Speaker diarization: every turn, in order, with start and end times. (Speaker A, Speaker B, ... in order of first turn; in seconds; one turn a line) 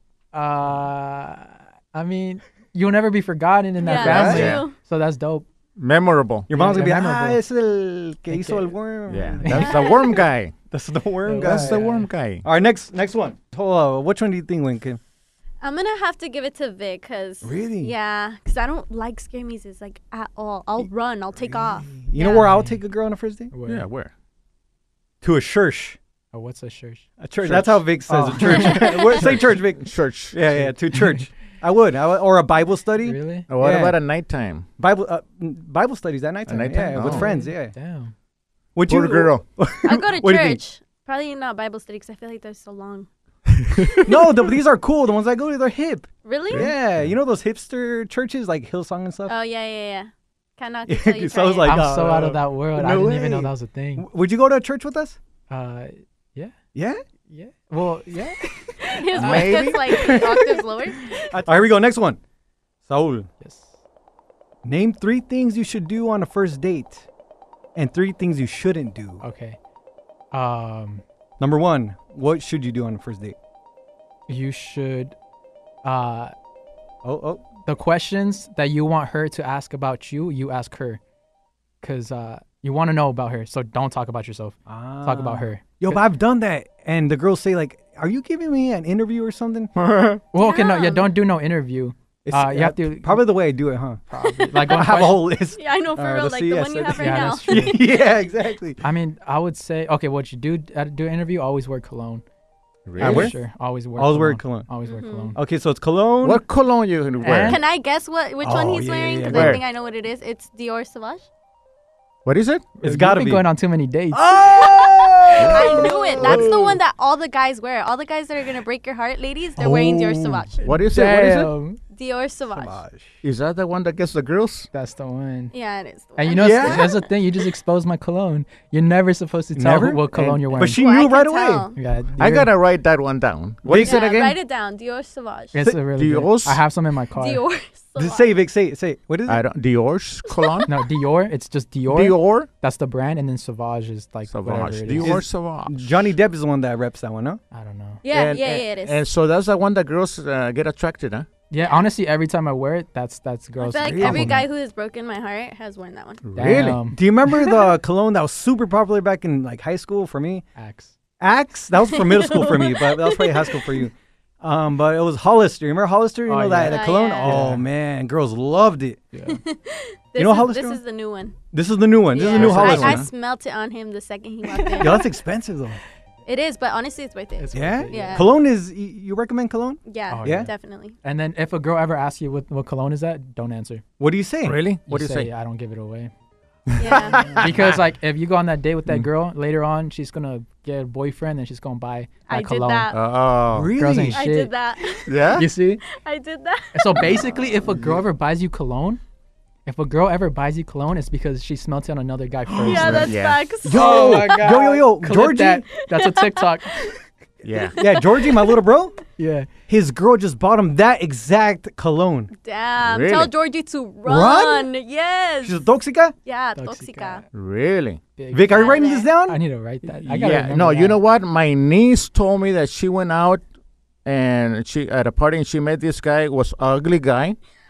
Speaker A: 0.3-5.5
Speaker B: 3.8-4.7
Speaker C: 3.9-4.5
Speaker D: 4.0-4.6
Speaker D: 5.8-6.5
Speaker C: 6.5-9.8
Speaker A: 6.5-7.4
Speaker A: 8.3-8.8
Speaker D: 9.1-10.5
Speaker A: 9.4-9.8
Speaker B: 9.5-10.2
Speaker C: 10.7-11.8
Speaker A: 11.2-12.1
Speaker D: 11.4-12.4
Speaker C: 12.4-15.0
Speaker B: 15.6-22.5
Speaker C: 17.4-17.9
Speaker C: 21.4-23.5
Speaker A: 22.2-22.8
Speaker A: 23.5-23.9
Speaker D: 23.6-24.1
Speaker C: 25.2-26.0
Speaker A: 26.3-27.1
Speaker C: 27.2-34.0
Speaker D: 27.4-27.9
Speaker A: 28.1-29.3
Speaker D: 29.8-30.4
Speaker A: 30.9-31.2
Speaker A: 33.0-33.5
Speaker D: 33.5-34.7
Speaker C: 34.8-37.8
Speaker D: 36.5-37.3
Speaker A: 36.9-38.1
Speaker C: 38.8-40.6
Speaker D: 38.9-39.4
Speaker B: 39.8-43.1
Speaker D: 43.5-44.1
Speaker C: 44.0-49.3
Speaker B: 46.2-46.7
Speaker D: 46.5-47.1
Speaker B: 49.3-51.8
Speaker C: 50.9-53.4
Speaker A: 51.6-54.1
Speaker D: 52.8-53.4
Speaker C: 54.0-55.2
Speaker A: 55.5-56.5
Speaker C: 56.8-57.0
Speaker A: 57.3-61.3
Speaker B: 58.8-61.3
Speaker D: 59.1-60.1
Speaker C: 61.3-62.2
Speaker C: 62.9-63.3
Speaker A: 63.4-63.7
Speaker C: 64.6-67.0
Speaker C: 67.8-69.2
Speaker A: 69.2-69.6
Speaker A: 70.3-71.0
Speaker C: 71.4-73.4
Speaker A: 74.3-75.2
Speaker A: 75.8-76.3
Speaker C: 77.0-77.4
Speaker A: 77.7-81.0
Speaker A: 81.8-86.0
Speaker C: 84.7-89.7
Speaker D: 89.8-90.2
Speaker A: 90.3-93.3
Speaker B: 90.4-91.1
Speaker C: 92.2-94.0
Speaker A: 94.1-95.2
Speaker B: 94.3-94.9
Speaker C: 94.5-98.8
Speaker B: 95.5-97.8
Speaker A: 96.9-97.8
Speaker A: 98.8-102.2
Speaker D: 102.9-103.3
Speaker A: 103.0-105.4
Speaker C: 103.0-103.3
Speaker C: 104.0-104.7
Speaker B: 104.8-105.3
Speaker C: 105.3-106.4
Speaker D: 106.2-107.6
Speaker A: 107.2-107.6
Speaker B: 107.4-111.3
Speaker C: 108.4-109.6
Speaker D: 109.3-109.6
Speaker D: 112.2-112.7
Speaker C: 112.8-113.5
Speaker A: 112.8-114.3
Speaker C: 114.1-116.6
Speaker B: 114.4-120.7
Speaker D: 115.4-116.8
Speaker C: 119.6-120.5
Speaker D: 120.6-121.5
Speaker A: 120.7-121.8
Speaker B: 121.9-122.8
Speaker C: 122.5-123.2
Speaker D: 123.2-124.7
Speaker A: 124.7-125.5
Speaker B: 125.5-127.1
Speaker A: 126.2-130.8
Speaker C: 126.3-126.9
Speaker C: 129.6-131.7
Speaker D: 130.2-130.4
Speaker B: 130.6-131.8
Speaker A: 131.8-132.5
Speaker D: 132.2-134.3
Speaker C: 133.7-134.2
Speaker B: 133.8-135.6
Speaker A: 135.5-137.4
Speaker D: 135.9-136.6
Speaker B: 137.1-138.4
Speaker C: 138.0-139.4
Speaker D: 139.3-140.7
Speaker B: 140.3-140.7
Speaker A: 140.7-145.2
Speaker D: 141.9-142.5
Speaker D: 144.3-146.1
Speaker C: 145.0-147.4
Speaker A: 147.5-148.0
Speaker B: 148.0-149.0
Speaker D: 148.1-151.3
Speaker A: 151.5-154.5
Speaker B: 153.6-156.2
Speaker C: 153.8-154.4
Speaker D: 156.2-156.8
Speaker A: 156.4-157.0
Speaker C: 156.5-160.4
Speaker A: 160.6-160.9
Speaker C: 161.2-169.0
Speaker B: 161.8-163.9
Speaker A: 166.3-167.6
Speaker B: 166.7-167.4
Speaker A: 169.1-169.4
Speaker B: 169.2-171.4
Speaker C: 170.2-170.8
Speaker C: 171.5-173.1
Speaker B: 172.1-175.1
Speaker D: 172.3-173.1
Speaker A: 174.5-175.0
Speaker C: 174.8-175.8
Speaker B: 176.3-178.3
Speaker A: 177.4-178.3
Speaker C: 177.5-180.5
Speaker B: 179.8-181.0
Speaker A: 180.1-180.5
Speaker A: 181.0-183.8
Speaker C: 184.0-184.6
Speaker D: 184.4-185.3
Speaker A: 184.9-186.1
Speaker D: 186.7-187.8
Speaker B: 186.8-187.5
Speaker A: 186.9-192.9
Speaker C: 187.1-187.4
Speaker B: 192.3-193.0
Speaker D: 192.9-193.7
Speaker C: 193.5-194.2
Speaker A: 193.8-194.5
Speaker B: 194.1-197.3
Speaker D: 195.1-195.5
Speaker A: 195.3-195.8
Speaker A: 196.7-199.0
Speaker D: 197.7-198.0
Speaker A: 199.7-207.0
Speaker B: 202.6-204.4
Speaker D: 202.7-203.5
Speaker C: 203.6-205.7
Speaker B: 205.8-206.5
Speaker D: 207.4-207.8
Speaker B: 207.6-208.6
Speaker C: 207.8-209.0
Speaker A: 209.2-209.5
Speaker C: 209.7-212.3
Speaker B: 212.4-215.7
Speaker D: 212.8-213.3
Speaker C: 214.1-214.7
Speaker C: 215.4-216.1
Speaker B: 216.2-217.2
Speaker A: 216.6-217.2
Speaker D: 217.3-218.0
Speaker A: 218.2-221.0
Speaker C: 218.3-219.4
Speaker B: 218.5-219.1
Speaker D: 220.0-223.4
Speaker D: 224.1-227.4